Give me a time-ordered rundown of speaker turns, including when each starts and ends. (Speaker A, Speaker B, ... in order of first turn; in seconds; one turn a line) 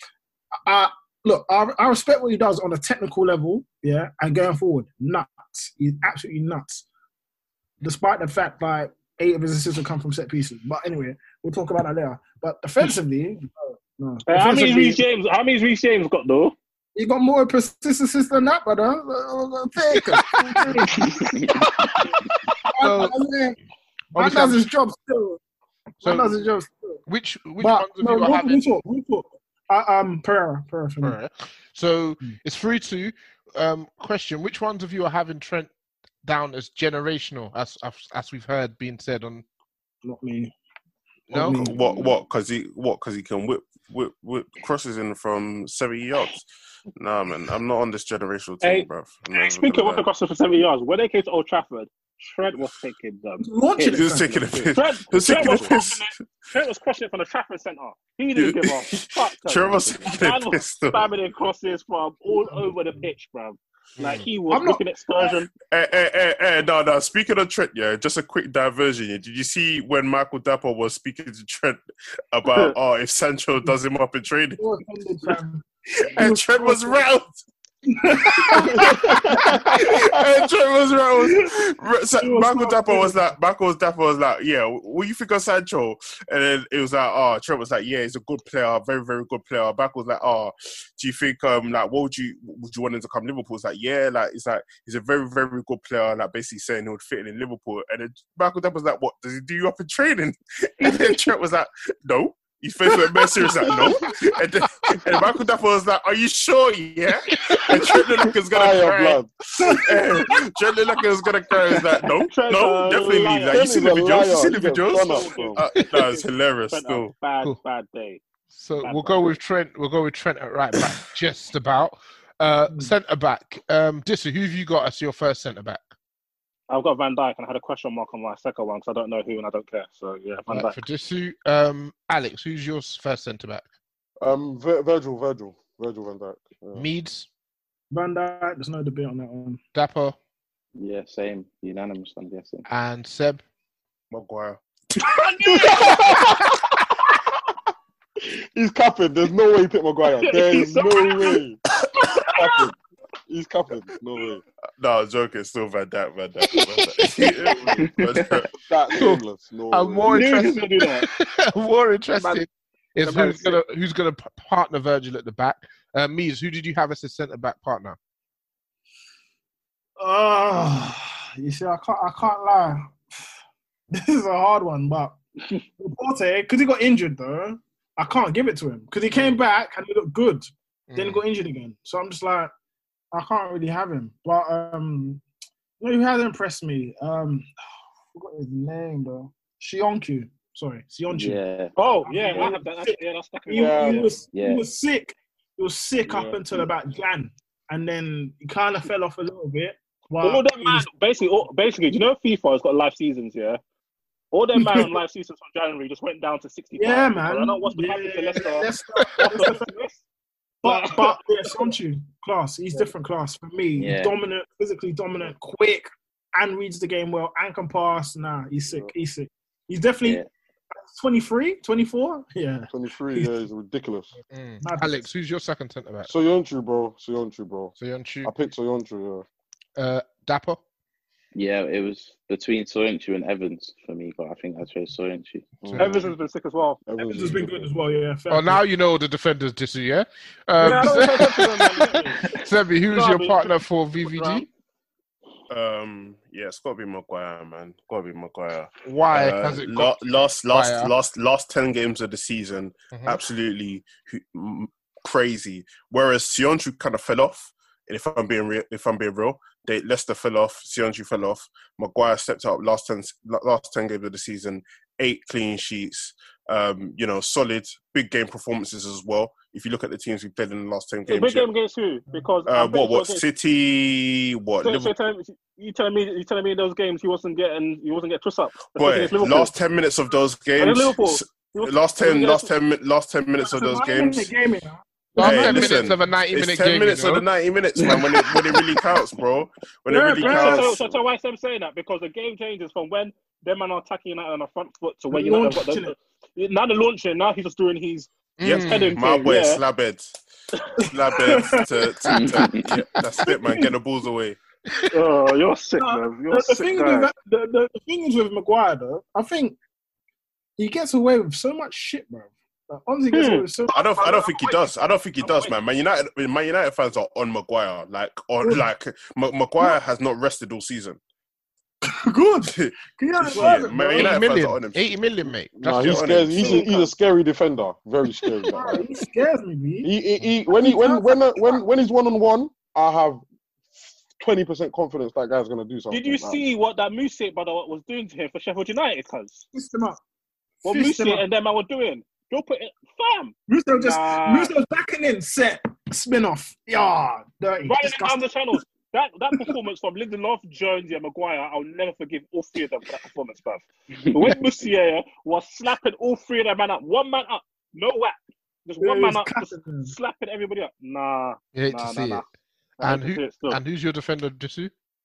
Speaker A: 0.7-6.9
Speaker A: 7.8-15.0
Speaker B: 14.3-16.6
Speaker A: 17.0-21.3
Speaker C: 19.9-20.8
Speaker A: 22.6-23.6
Speaker C: 22.8-23.2
Speaker A: 24.1-25.4
Speaker C: 24.1-24.7
Speaker A: 26.0-27.0
Speaker C: 26.0-26.4
Speaker C: 27.1-28.6
Speaker A: 27.6-31.2
Speaker C: 31.0-35.7
Speaker C: 36.2-39.4
Speaker A: 40.0-40.5
Speaker C: 41.3-41.7
Speaker A: 41.3-41.9
Speaker D: 41.6-50.1
Speaker B: 48.6-54.0
Speaker A: 53.4-54.7
Speaker D: 54.0-56.0
Speaker B: 54.7-65.5
Speaker D: 58.4-61.1
Speaker A: 62.3-62.7
Speaker C: 64.0-64.3
Speaker A: 64.5-65.4
Speaker D: 65.7-71.8
Speaker D: 72.3-74.6
Speaker A: 74.6-77.1
Speaker D: 76.1-77.4
Speaker A: 77.9-80.0
Speaker D: 78.4-117.1
Speaker A: 81.2-81.5
Speaker A: 82.2-83.2
Speaker E: 108.5-109.3
Speaker A: 109.6-110.3
Speaker B: 112.3-113.7
Speaker E: 113.5-115.6
Speaker B: 114.9-118.2
Speaker C: 118.5-125.9
Speaker B: 118.8-119.4
Speaker B: 126.7-130.8
Speaker C: 130.5-133.7
Speaker E: 134.2-136.9
Speaker C: 136.8-137.3
Speaker A: 137.9-139.6
Speaker C: 139.8-140.2
Speaker F: 140.8-142.7
Speaker C: 142.7-143.4
Speaker D: 144.1-144.6
Speaker B: 145.0-146.2
Speaker E: 145.7-146.4
Speaker E: 148.6-151.6
Speaker B: 150.2-151.4
Speaker E: 152.2-152.8
Speaker E: 153.3-154.4
Speaker D: 154.8-158.5
Speaker C: 156.7-157.1
Speaker E: 158.6-160.3
Speaker C: 158.9-168.0
Speaker B: 160.1-161.1
Speaker B: 162.1-162.4
Speaker B: 163.0-163.6
Speaker A: 170.0-173.0
Speaker A: 173.9-175.2
Speaker A: 175.8-182.5
Speaker C: 180.9-181.2
Speaker A: 183.1-185.2
Speaker A: 185.8-187.5
Speaker A: 188.1-191.4
Speaker F: 191.1-191.8
Speaker B: 191.8-194.2
Speaker A: 192.0-200.9
Speaker E: 193.5-194.1
Speaker F: 194.3-194.6
Speaker E: 196.0-196.4
Speaker B: 200.2-203.6
Speaker B: 204.3-210.0
Speaker A: 204.6-205.0
Speaker A: 206.8-209.8
Speaker A: 210.6-220.2
Speaker B: 210.6-211.2
Speaker F: 213.8-214.1
Speaker F: 220.0-220.3
Speaker A: 220.8-223.3
Speaker E: 222.7-224.1
Speaker C: 224.3-226.1
Speaker A: 224.6-225.1
Speaker E: 226.1-229.3
Speaker C: 227.8-228.3
Speaker C: 229.8-230.6
Speaker F: 231.3-235.5
Speaker E: 235.6-236.1
Speaker C: 235.7-236.0
Speaker B: 235.8-236.8
Speaker E: 236.9-237.7
Speaker A: 237.0-238.6
Speaker C: 238.3-241.7
Speaker A: 240.6-241.3
Speaker B: 240.6-242.3
Speaker C: 242.3-244.5
Speaker B: 242.9-244.4
Speaker D: 245.5-271.5
Speaker C: 248.8-250.9
Speaker C: 252.9-253.2
Speaker B: 271.1-273.2
Speaker D: 272.5-274.9
Speaker B: 274.6-279.5
Speaker D: 278.8-284.3
Speaker B: 280.6-282.5
Speaker A: 283.4-285.9
Speaker C: 285.2-287.3
Speaker D: 285.2-290.9
Speaker A: 289.9-290.8
Speaker B: 290.2-299.6
Speaker A: 295.1-295.9
Speaker C: 298.4-299.0
Speaker D: 298.4-300.2
Speaker A: 300.8-301.8
Speaker D: 300.8-304.4
Speaker F: 302.1-302.7
Speaker A: 303.2-303.7
Speaker C: 304.7-304.9
Speaker B: 304.9-307.1
Speaker A: 305.8-309.6
Speaker A: 310.6-313.9
Speaker B: 313.1-315.6
Speaker D: 313.7-321.0
Speaker A: 318.4-318.7
Speaker A: 321.9-324.2
Speaker D: 322.6-325.0
Speaker C: 323.9-326.1
Speaker E: 325.6-328.8
Speaker D: 325.6-326.8
Speaker B: 326.4-326.8
Speaker A: 328.5-329.9
Speaker E: 329.8-333.2
Speaker A: 330.5-331.6
Speaker E: 334.2-336.4
Speaker B: 335.9-339.5
Speaker A: 339.5-340.0
Speaker A: 340.6-341.2
Speaker B: 340.6-344.5
Speaker A: 343.5-348.6
Speaker B: 347.6-362.2
Speaker A: 358.8-359.9
Speaker C: 361.5-362.2
Speaker B: 362.8-363.6
Speaker C: 362.8-364.7